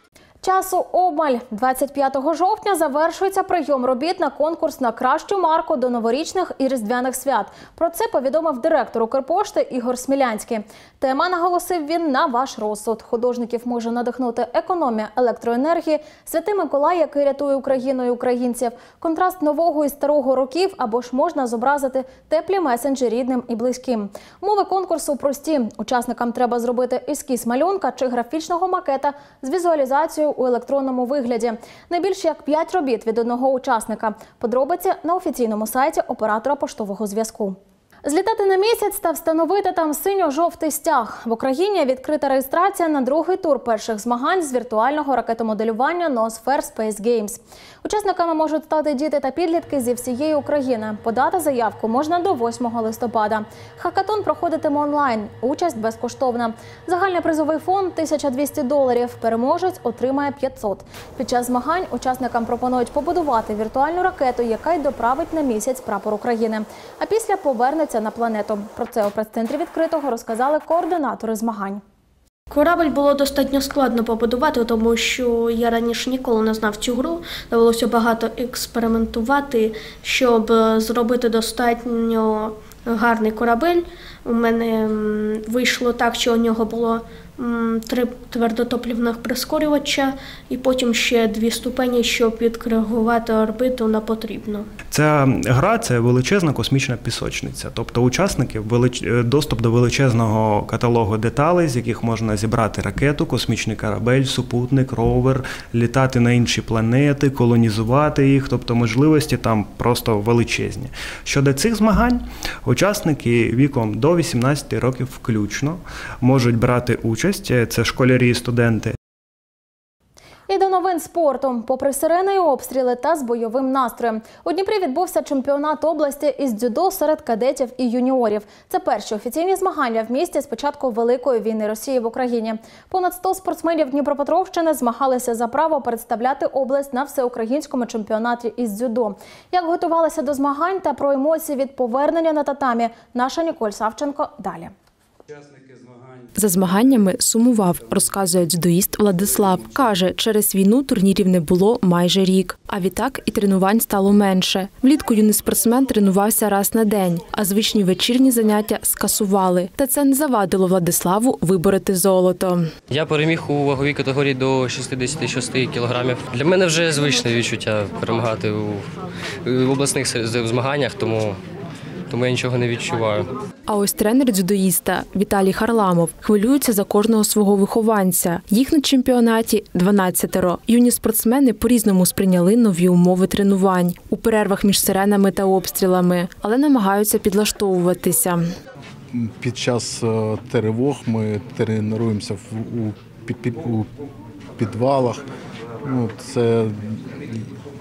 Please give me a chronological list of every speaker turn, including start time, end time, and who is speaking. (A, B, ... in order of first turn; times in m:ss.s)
0:00.4-1:11.8 A
1:12.5-1:34.7 B
1:34.9-1:58.9 C
2:00.5-2:24.7 A
2:26.3-2:42.7 D
2:42.9-2:48.8 E
2:49.4-2:51.4 E
2:52.1-2:53.2 E
2:53.7-3:08.4 D
3:09.1-3:13.9 F
3:14.6-3:15.2 F
3:15.8-3:17.5 F